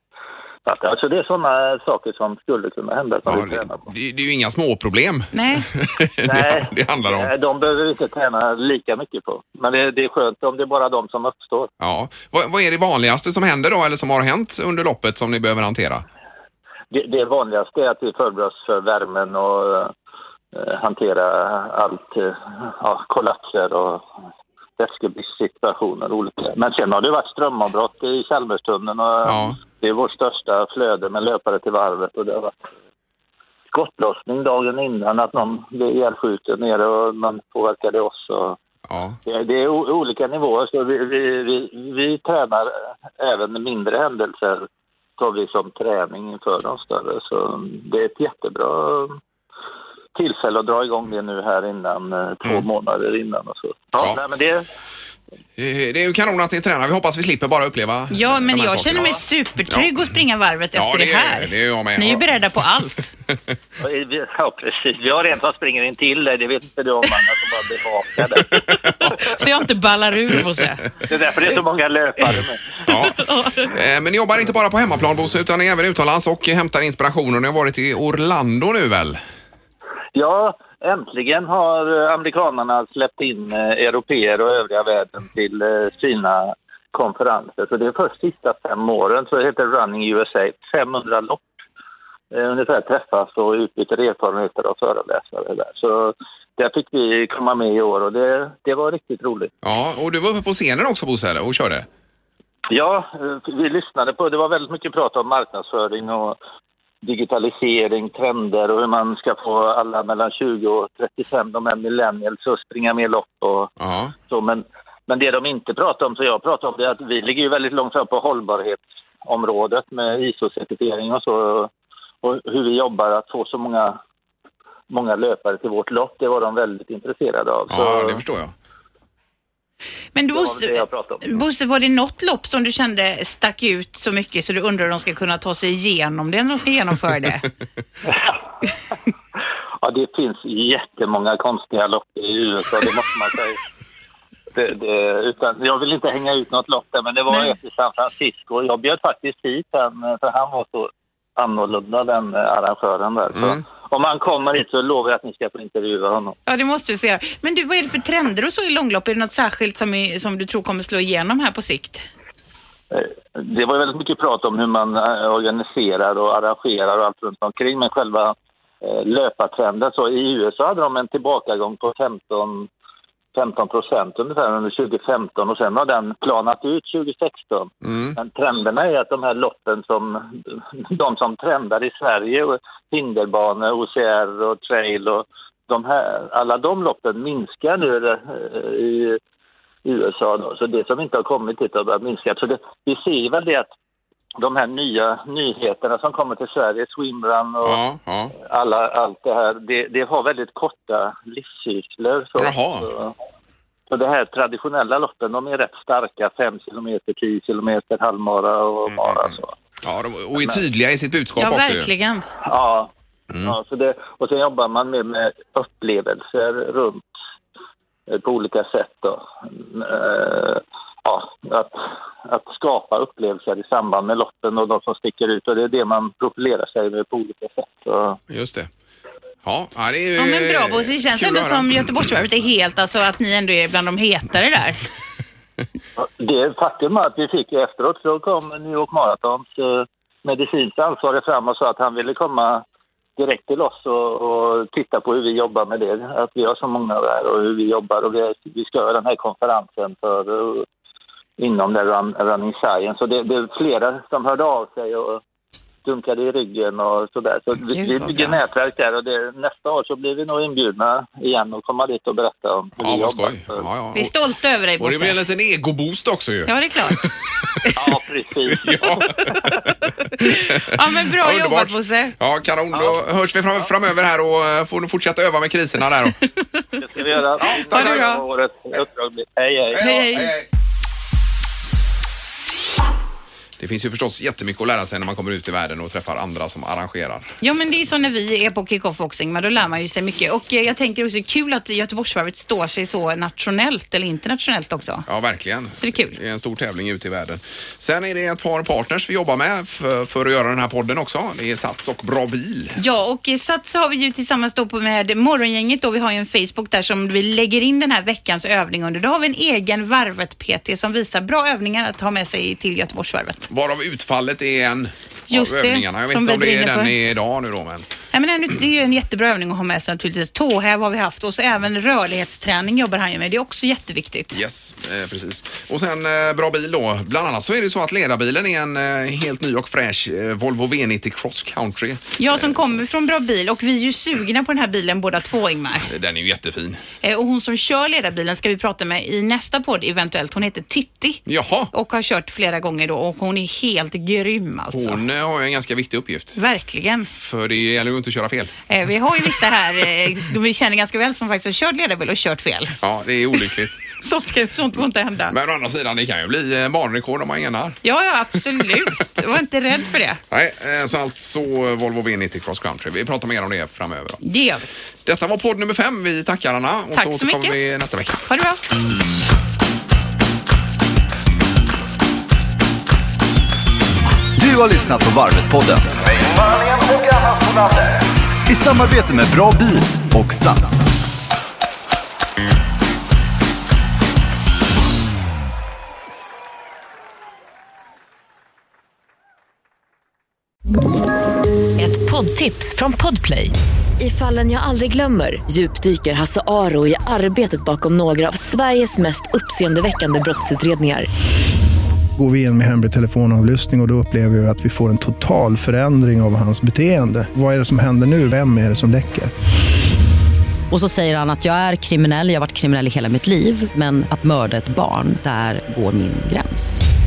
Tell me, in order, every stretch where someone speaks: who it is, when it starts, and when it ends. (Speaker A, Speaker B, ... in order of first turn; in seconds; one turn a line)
Speaker A: 0.7-3.9
Speaker B: 3.3-7.3
Speaker C: 5.3-5.7
Speaker A: 6.2-11.7
Speaker B: 11.8-16.0
Speaker A: 16.9-19.9
Speaker A: 20.5-24.1
Speaker A: 24.8-32.5
Speaker B: 29.2-29.6
Speaker A: 33.7-38.6
Speaker B: 38.9-39.2
Speaker A: 39.2-44.7
Speaker A: 45.2-49.2
Speaker A: 50.1-54.7
Speaker B: 55.6-59.9
Speaker C: 58.1-63.1
Speaker B: 60.7-62.3
Speaker A: 63.8-69.3
Speaker B: 68.7-68.9
Speaker C: 69.1-70.9
Speaker A: 71.1-72.8
Speaker B: 72.9-73.2
Speaker C: 73.0-73.7
Speaker B: 73.7-79.2
Speaker A: 80.1-91.6
Speaker A: 92.3-99.5
Speaker B: 99.6-101.9
Speaker A: 102.7-106.4
Speaker A: 107.0-113.7
Speaker B: 113.8-114.1
Speaker A: 114.2-121.7
Speaker A: 122.2-124.0
Speaker A: 124.9-128.2
Speaker B: 127.7-128.5
Speaker C: 130.1-137.5
Speaker A: 130.3-131.4
Speaker A: 138.1-138.4
Speaker A: 139.8-143.6
Speaker A: 144.5-156.4
Speaker C: 156.4-162.0
Speaker A: 162.9-172.7
Speaker A: 173.3-189.2
Speaker B: 177.9-178.1
Speaker A: 189.8-193.7
Speaker A: 194.4-197.8
Speaker B: 197.6-198.3
Speaker A: 198.3-203.1
Speaker B: 202.4-202.9
Speaker A: 203.9-209.5
Speaker B: 209.8-211.9
Speaker A: 210.3-210.6
Speaker C: 211.4-212.2
Speaker A: 212.4-217.1
Speaker A: 218.1-228.2
Speaker B: 228.3-228.7
Speaker B: 229.4-231.9
Speaker C: 230.2-234.8
Speaker A: 236.0-242.6
Speaker A: 243.2-250.7
Speaker A: 251.4-255.2
Speaker A: 255.8-263.6
Speaker C: 257.7-258.4
Speaker B: 262.8-264.1
Speaker C: 263.9-265.2
Speaker B: 264.8-267.0
Speaker C: 266.4-267.0
Speaker A: 267.7-269.0
Speaker B: 268.6-276.2
Speaker C: 270.2-272.1
Speaker A: 276.8-280.3
Speaker B: 277.6-278.0
Speaker C: 277.7-278.2
Speaker B: 279.7-280.5
Speaker C: 279.8-280.3
Speaker B: 283.6-287.3
Speaker C: 287.4-295.0
Speaker B: 295.1-302.8
Speaker C: 295.8-296.2
Speaker C: 302.8-313.5
Speaker B: 313.5-317.9
Speaker C: 315.3-316.9
Speaker C: 318.1-324.4
Speaker B: 324.3-332.8
Speaker C: 332.2-335.9
Speaker B: 335.8-336.8
Speaker C: 337.0-345.0
Speaker B: 341.3-341.7
Speaker B: 344.7-346.4
Speaker C: 346.4-347.1
Speaker B: 347.1-348.6
Speaker C: 348.7-352.7
Speaker B: 352.8-353.9
Speaker C: 353.9-355.3
Speaker B: 355.3-357.8
Speaker C: 357.8-360.2
Speaker B: 360.3-364.2
Speaker C: 364.2-364.6
Speaker B: 365.0-368.2
Speaker C: 366.9-367.5
Speaker C: 368.3-368.6
Speaker D: 374.4-375.9
Speaker D: 378.5-380.9
Speaker E: 391.8-401.1
Speaker F: 402.2-409.3
Speaker G: 410.7-416.8